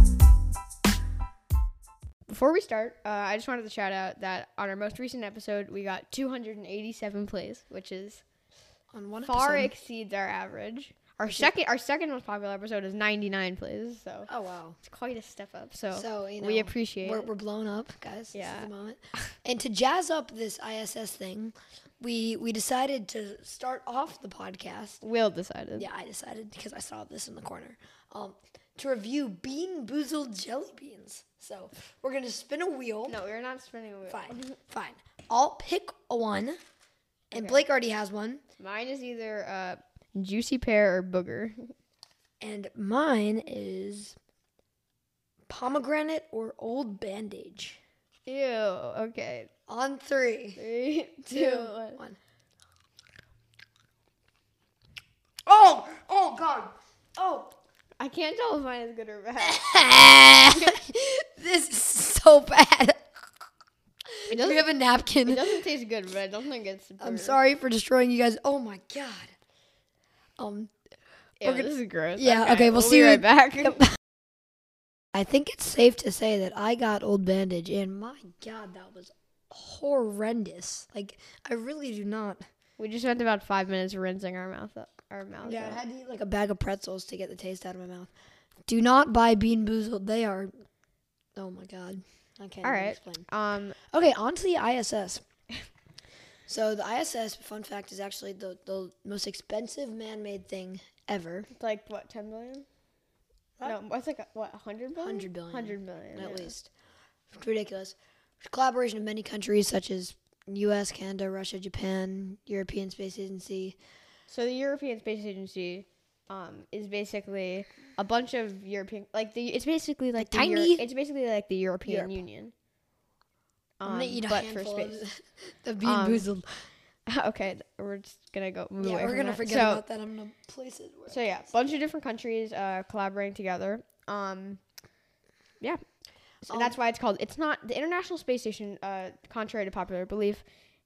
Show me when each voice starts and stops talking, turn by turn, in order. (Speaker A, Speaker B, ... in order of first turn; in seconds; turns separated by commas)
Speaker A: 2.3-8.2, Speaker B: 8.9-9.7, Speaker A: 9.2-14.3, Speaker B: 11.2-11.5, Speaker B: 14.3-14.8, Speaker A: 14.8-17.3, Speaker B: 15.9-25.0, Speaker A: 18.3-19.3, Speaker A: 25.0-25.9, Speaker B: 25.8-33.2, Speaker A: 33.1-34.6, Speaker B: 34.1-36.6, Speaker A: 37.3-37.6, Speaker B: 37.3-38.4, Speaker A: 38.6-41.7, Speaker B: 42.4-44.2, Speaker B: 45.5-47.8, Speaker A: 48.3-49.5, Speaker B: 49.7-50.6, Speaker A: 50.6-52.0, Speaker B: 51.3-52.2, Speaker B: 55.5-57.5, Speaker A: 58.0-59.7, Speaker B: 59.4-63.2, Speaker A: 60.5-60.9, Speaker B: 64.1-65.7, Speaker A: 64.3-64.7, Speaker A: 65.2-67.4, Speaker B: 67.0-69.3, Speaker B: 70.4-70.7, Speaker A: 71.4-73.8, Speaker B: 71.4-74.0, Speaker B: 75.1-82.5, Speaker A: 82.8-85.8, Speaker B: 85.4-88.1, Speaker B: 88.7-90.5, Speaker B: 91.4-93.3, Speaker A: 92.6-93.8, Speaker B: 93.8-95.2, Speaker B: 96.5-101.5, Speaker A: 101.5-102.7, Speaker A: 103.6-106.5, Speaker B: 105.0-106.7, Speaker B: 107.3-113.8, Speaker A: 114.3-122.5, Speaker B: 120.2-120.8, Speaker B: 121.9-122.2, Speaker A: 123.8-125.0, Speaker B: 123.8-126.7, Speaker A: 125.8-126.3, Speaker A: 127.1-129.8, Speaker B: 128.8-131.7, Speaker A: 131.1-134.6, Speaker A: 136.5-140.4, Speaker B: 136.5-136.8